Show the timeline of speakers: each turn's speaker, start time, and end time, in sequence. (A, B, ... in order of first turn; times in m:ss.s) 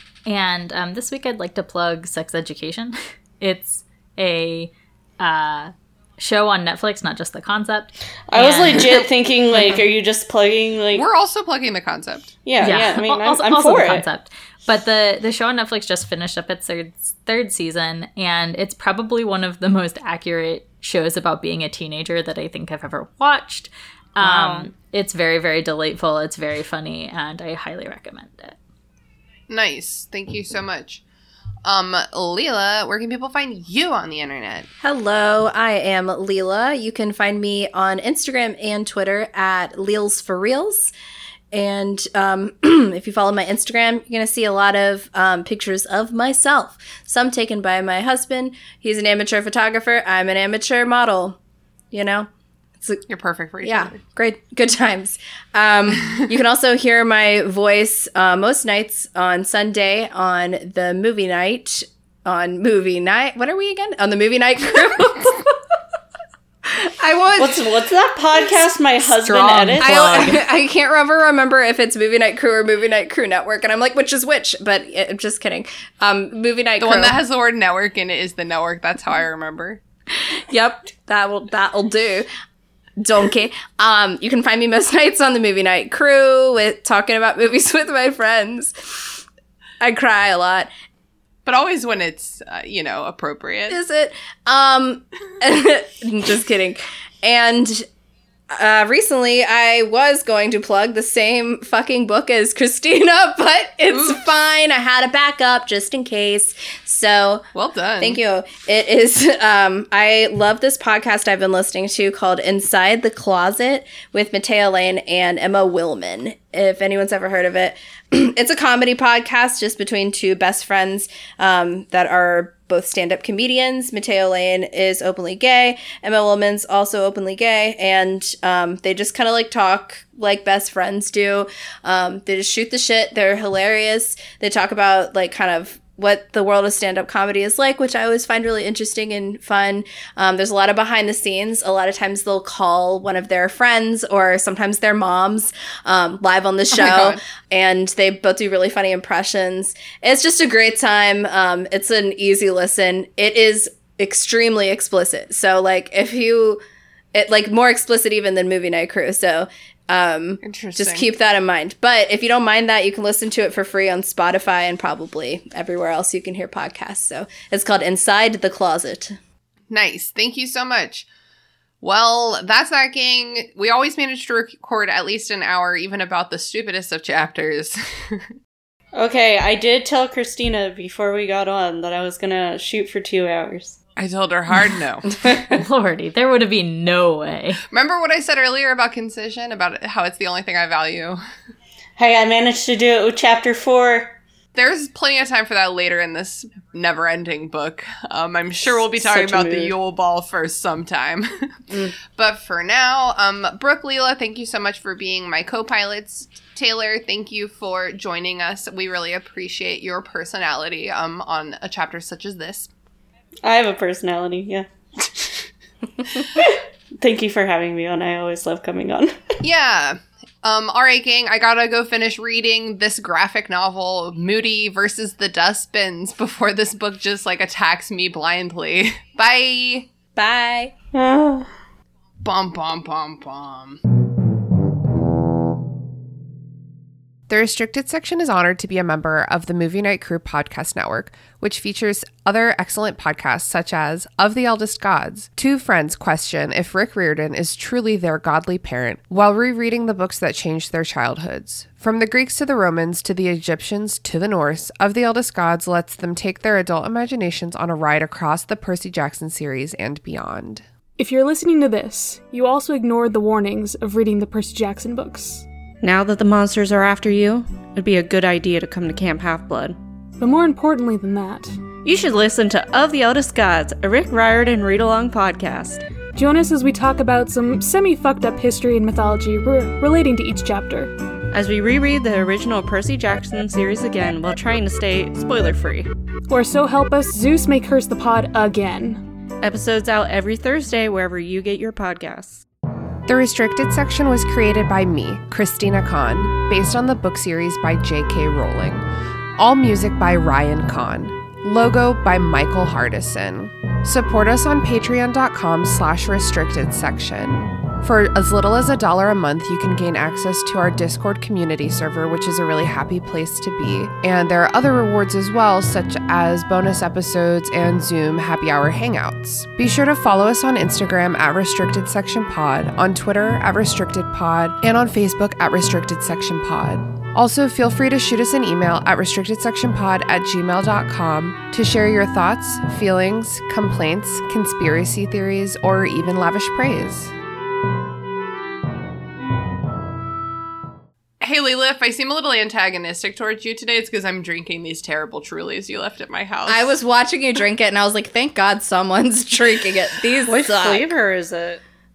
0:00.2-0:08.9 A
0:08.3-0:11.0 B
0:10.9-0:12.3 C
0:12.4-0:14.0 B
0:12.6-0:28.6 A
0:24.2-0:24.7 B
0:29.5-0:31.0 C
0:31.6-0:34.7 C
0:34.8-0:40.9 D
0:41.5-0:51.4 D
0:51.9-0:52.3 D
0:53.1-0:54.0 C
0:53.6-1:05.5 D
1:06.7-1:07.7 D
1:07.4-1:10.2 B
1:09.1-1:10.4 A
1:09.8-1:17.2 D
1:16.8-1:19.8 C
1:20.5-1:22.3 D
1:23.0-1:29.2 D
1:29.8-1:30.7 D
1:31.4-1:33.8 C
1:33.7-1:37.8 D
1:38.5-1:47.4 D
1:43.9-1:44.2 C
1:47.5-1:48.2 C
1:48.0-2:36.6 D
2:26.7-2:27.2 C
2:37.1-2:49.2 D
2:40.4-2:41.1 C
2:49.7-2:51.1 C
2:51.8-2:58.2 C
2:59.0-3:03.8 B
3:04.0-3:05.1 C
3:05.5-3:07.6 A
3:07.7-3:11.2 C
3:12.0-3:14.2 B
3:14.5-3:32.7 C
3:19.0-3:19.7 B
3:33.4-3:35.4 B
3:36.0-3:39.2 B
3:39.4-3:49.9 C
3:50.2-3:50.7 D
3:50.9-3:51.5 B
3:52.2-3:53.8 C
3:57.3-4:20.6 C
4:21.0-4:25.4 E
4:25.8-4:29.8 B
4:30.2-4:31.5 E
4:31.8-4:35.8 B
4:36.1-4:40.9 E
4:41.3-4:45.9 B
4:46.3-4:49.0 E
4:49.4-4:52.4 B
4:53.1-4:58.8 C
4:59.4-5:37.1 C
5:41.2-5:46.7 C
5:46.5-5:50.9 D
5:50.3-5:51.6 B